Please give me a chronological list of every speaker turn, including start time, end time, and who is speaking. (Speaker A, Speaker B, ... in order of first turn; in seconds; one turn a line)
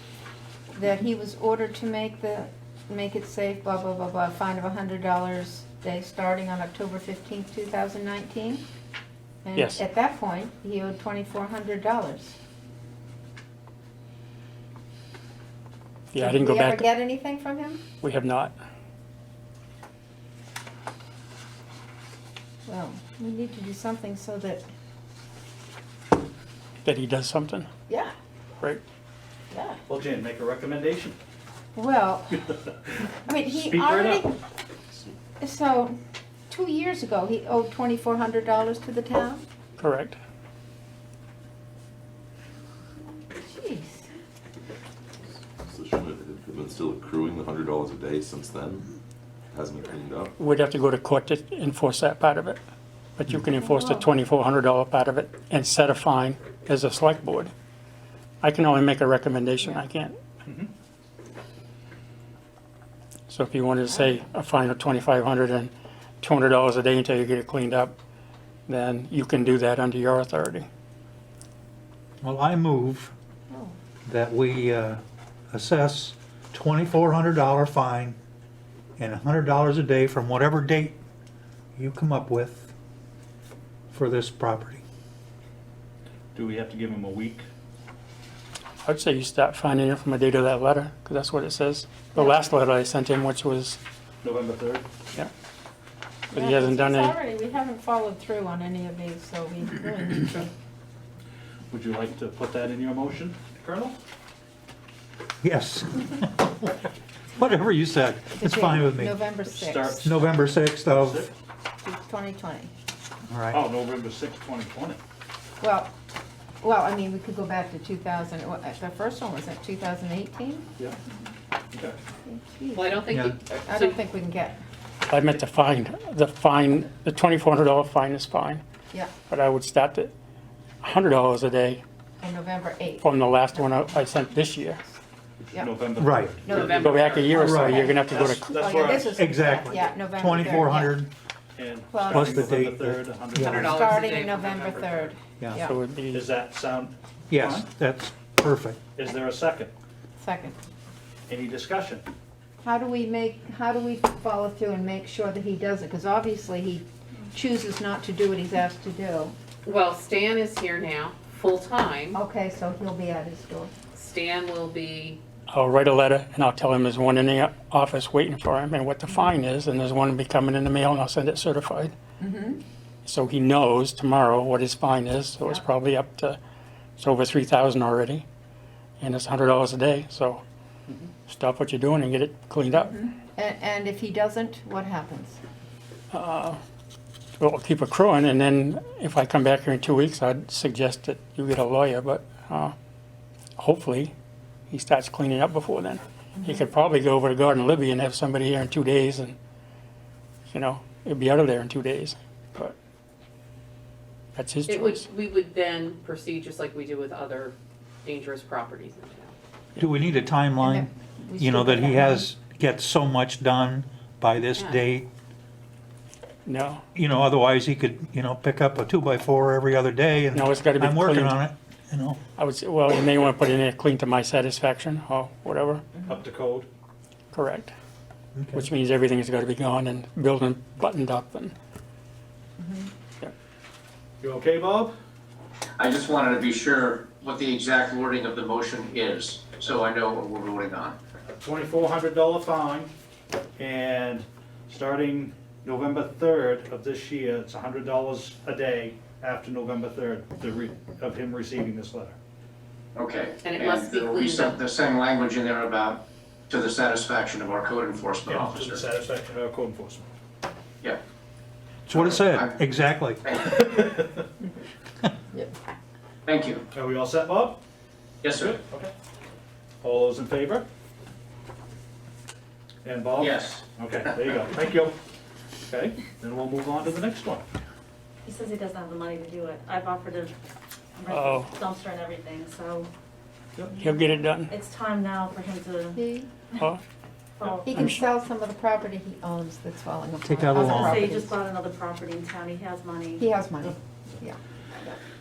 Speaker A: 0.7-8.6
Speaker A: 9.4-12.3
Speaker B: 16.1-16.9
Speaker A: 16.1-17.8
Speaker B: 18.0-18.5
Speaker A: 22.6-24.6
Speaker B: 26.8-27.7
Speaker A: 27.9-28.1
Speaker A: 29.5-29.8
Speaker C: 29.9-31.2
Speaker A: 31.7-32.6
Speaker A: 33.2-34.4
Speaker C: 33.4-34.3
Speaker A: 35.4-36.0
Speaker A: 36.5-39.4
Speaker B: 39.8-40.2
Speaker A: 43.3-44.1
Speaker D: 45.6-48.9
Speaker D: 49.5-50.3
Speaker B: 50.4-52.6
Speaker B: 53.2-57.5
Speaker A: 53.6-54.0
Speaker B: 58.4-60.1
Speaker C: 60.4-60.7
Speaker B: 63.3-67.9
Speaker B: 68.7-70.7
Speaker E: 72.2-73.1
Speaker E: 74.0-78.2
Speaker E: 79.0-81.0
Speaker E: 81.8-82.7
Speaker E: 83.9-84.8
Speaker C: 86.3-87.5
Speaker B: 88.8-93.8
Speaker A: 92.1-92.5
Speaker C: 94.2-94.8
Speaker B: 96.3-97.1
Speaker A: 96.3-100.5
Speaker C: 101.7-104.0
Speaker E: 105.4-106.8
Speaker E: 107.3-109.2
Speaker A: 108.3-110.0
Speaker C: 109.4-111.3
Speaker E: 110.0-111.2
Speaker A: 111.8-112.7
Speaker E: 113.3-113.6
Speaker C: 113.5-115.0
Speaker A: 115.6-115.9
Speaker A: 116.6-120.7
Speaker C: 121.7-122.0
Speaker A: 122.2-123.0
Speaker F: 122.7-124.0
Speaker E: 123.1-123.3
Speaker A: 123.7-124.6
Speaker B: 125.1-128.6
Speaker B: 129.3-130.1
Speaker B: 130.8-131.8
Speaker A: 132.2-133.8
Speaker B: 133.0-134.8
Speaker C: 135.5-136.8
Speaker E: 136.0-136.6
Speaker A: 136.4-141.0
Speaker F: 136.5-137.8
Speaker B: 136.6-138.5
Speaker E: 137.3-137.9
Speaker C: 138.0-139.3
Speaker E: 139.0-141.1
Speaker C: 141.6-143.9
Speaker A: 141.9-142.5
Speaker E: 142.0-143.9
Speaker A: 143.4-145.7
Speaker F: 143.4-144.9
Speaker B: 145.6-146.3
Speaker C: 146.1-147.7
Speaker E: 147.3-148.8
Speaker C: 148.9-149.7
Speaker A: 150.2-150.6
Speaker C: 151.3-152.1
Speaker A: 152.6-159.3
Speaker F: 159.6-162.2
Speaker A: 162.1-163.7
Speaker F: 163.9-165.2
Speaker B: 165.5-171.9
Speaker A: 172.2-172.6
Speaker B: 173.0-176.4
Speaker B: 177.0-178.2
Speaker B: 179.0-180.4
Speaker B: 181.2-182.9
Speaker A: 182.7-185.4
Speaker B: 186.1-186.6
Speaker B: 187.4-192.7
Speaker B: 193.6-194.1
Speaker B: 194.7-199.3
Speaker B: 200.5-202.7
Speaker B: 204.3-205.0
Speaker F: 204.7-209.3
Speaker E: 209.8-215.1
Speaker A: 210.6-212.3
Speaker B: 216.4-216.8
Speaker E: 216.9-222.2
Speaker B: 220.3-221.4
Speaker B: 222.4-225.9
Speaker C: 226.0-226.7
Speaker B: 227.3-227.7
Speaker E: 228.3-228.6
Speaker B: 228.5-231.5
Speaker A: 232.6-232.9
Speaker C: 234.2-234.9
Speaker G: 235.8-240.9
Speaker C: 241.2-242.9
Speaker C: 243.6-252.2
Speaker G: 252.9-258.7
Speaker F: 253.4-254.6
Speaker C: 258.2-260.1
Speaker E: 261.9-263.2
Speaker C: 263.4-264.2
Speaker G: 266.2-266.6
Speaker C: 266.7-267.6
Speaker C: 268.2-268.9
Speaker C: 269.8-270.6
Speaker C: 272.8-274.9
Speaker C: 275.7-277.4
Speaker H: 278.2-280.3
Speaker H: 280.9-282.9
Speaker B: 281.1-281.5
Speaker H: 283.8-286.0
Speaker B: 283.8-284.5
Speaker A: 285.9-286.3
Speaker H: 287.4-287.9
Speaker A: 287.5-291.4
Speaker B: 287.7-288.0
Speaker E: 290.2-291.1
Speaker H: 290.5-293.2
Speaker A: 293.2-295.0